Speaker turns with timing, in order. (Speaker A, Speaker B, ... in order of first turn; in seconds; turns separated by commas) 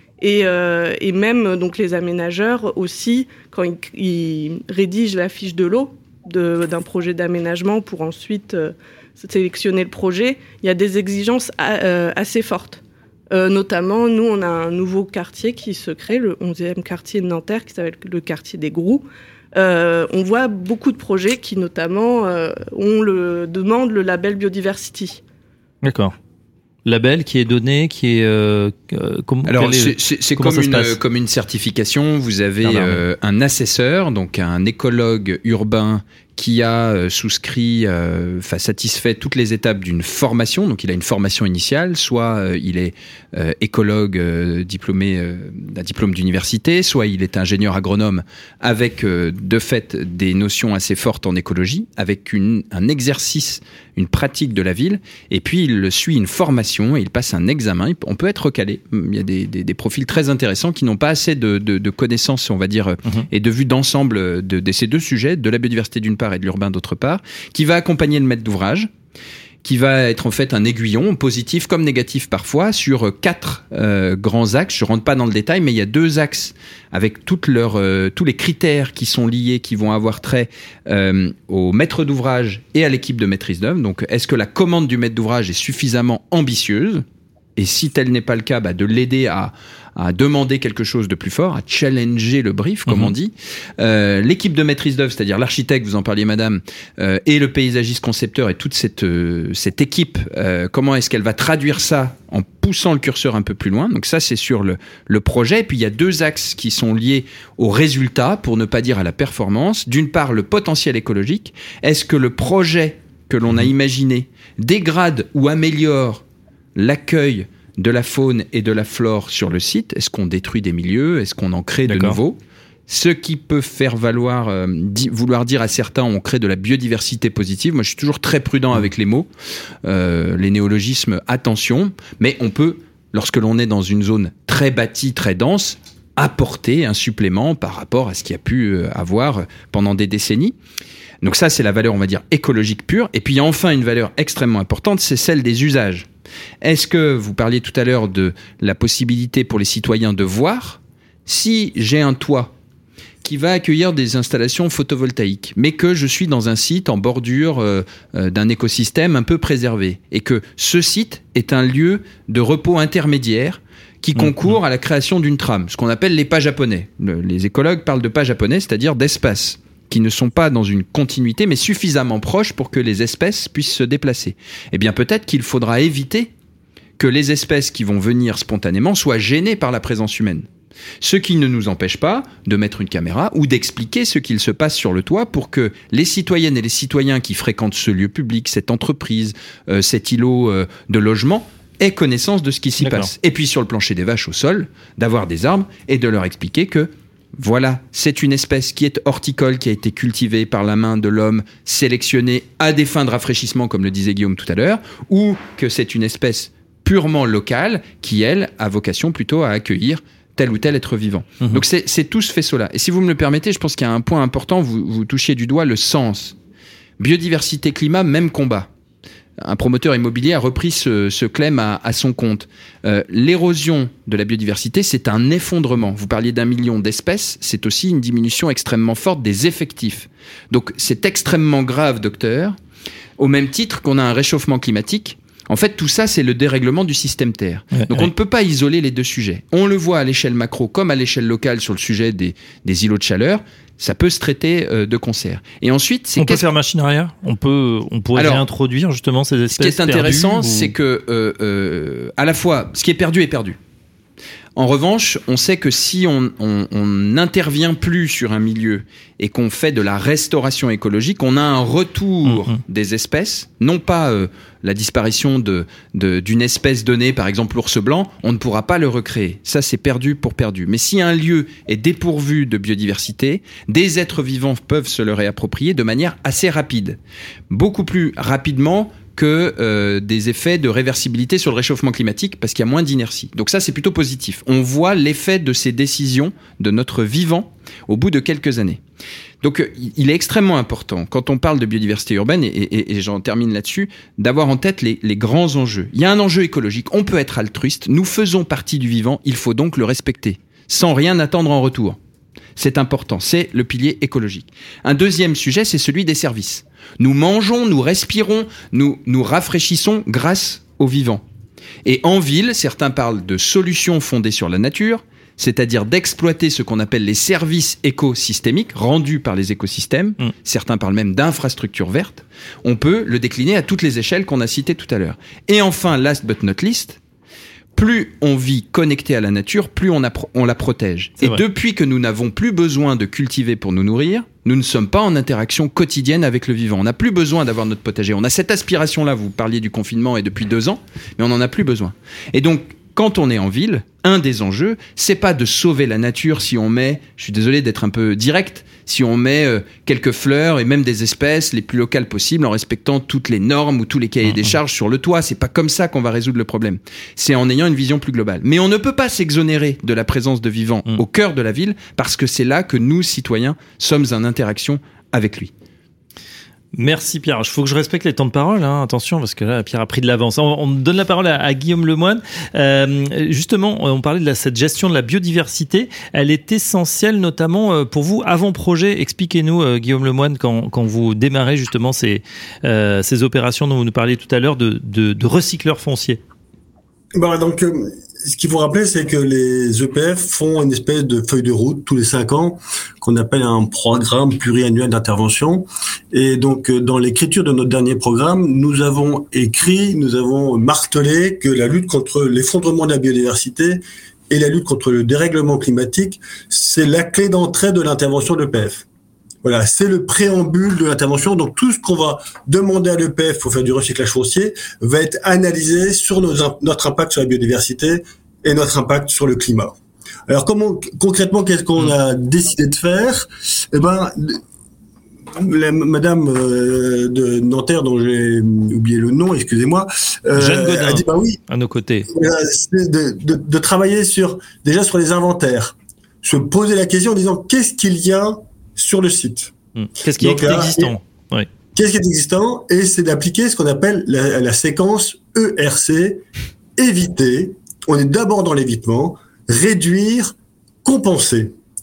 Speaker A: 0.2-25.2, Speaker B: 25.8-26.1, Speaker B: 26.9-31.0, Speaker C: 29.5-68.9, Speaker B: 32.6-33.0, Speaker C: 69.6-87.0, Speaker C: 87.6-116.2, Speaker B: 92.9-93.1, Speaker C: 116.7-122.4, Speaker B: 121.9-122.2, Speaker C: 122.9-129.3, Speaker C: 129.8-140.6, Speaker C: 141.2-146.1, Speaker C: 146.6-152.6, Speaker C: 153.2-176.3, Speaker C: 177.0-180.4, Speaker C: 181.0-216.4, Speaker B: 192.8-193.1, Speaker C: 217.0-218.7, Speaker C: 219.4-232.6, Speaker C: 233.2-246.5, Speaker B: 237.7-238.1, Speaker B: 246.2-250.7, Speaker C: 248.2-248.4, Speaker C: 249.5-253.6, Speaker C: 254.6-277.0, Speaker B: 262.3-262.6, Speaker C: 277.5-288.8, Speaker C: 289.4-302.0, Speaker C: 302.6-311.2, Speaker C: 311.9-327.0, Speaker C: 327.7-365.5, Speaker B: 366.8-386.2, Speaker D: 387.1-408.9, Speaker D: 409.4-419.8, Speaker D: 420.3-424.4, Speaker D: 425.4-431.4, Speaker B: 430.4-432.1, Speaker D: 432.1-439.5, Speaker B: 439.8-441.5, Speaker D: 440.2-440.9, Speaker D: 441.7-446.2, Speaker D: 446.8-451.5